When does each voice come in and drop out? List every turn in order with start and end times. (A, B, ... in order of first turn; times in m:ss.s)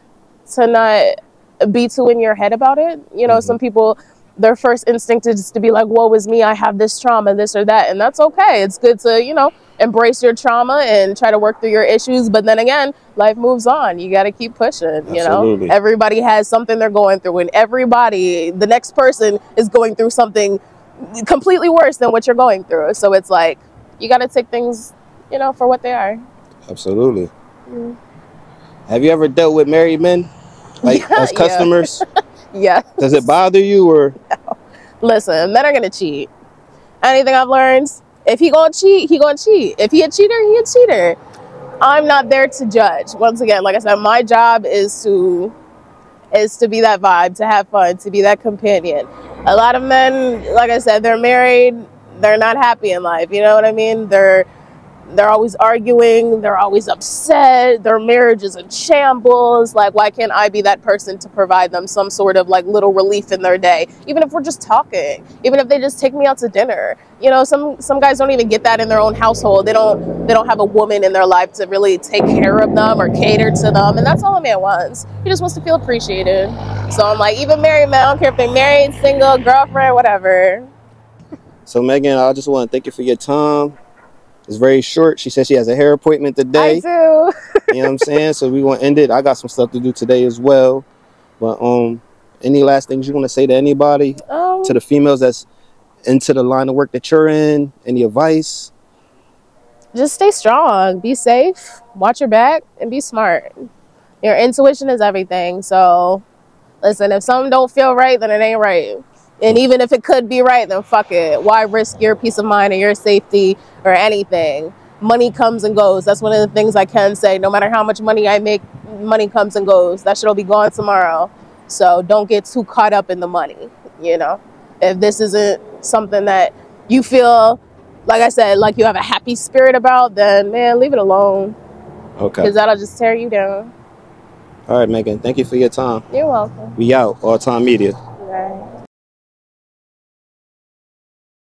0:00.5-0:20.6 A
0:03.3-0:03.6 B
0:15.1-0:15.7 B
0:21.1-0:26.2 A
0:26.7-0:27.3 B
0:27.7-0:27.9 A
0:28.9-0:30.3 B
0:30.8-0:32.0 B
0:30.8-0:33.3 A
0:33.0-0:34.1 B
0:34.3-0:36.3 A
0:37.0-0:41.2 A
0:41.8-0:45.5 A
0:46.3-0:54.4 A
0:55.1-1:20.7 A
1:21.6-1:23.8 B
1:24.5-1:26.8 B
1:26.6-1:27.8 A
1:27.7-1:30.8 B
1:31.4-1:35.4 B
1:34.2-1:34.8 A
1:36.0-1:38.7 B
1:39.9-1:43.7 A
1:44.2-1:46.2 A
1:46.8-2:11.6 A
2:12.2-2:12.5 B
2:12.4-2:13.7 A
2:14.7-2:16.0 B
2:16.1-2:16.8 A
2:16.8-2:18.0 B
2:18.2-2:18.7 A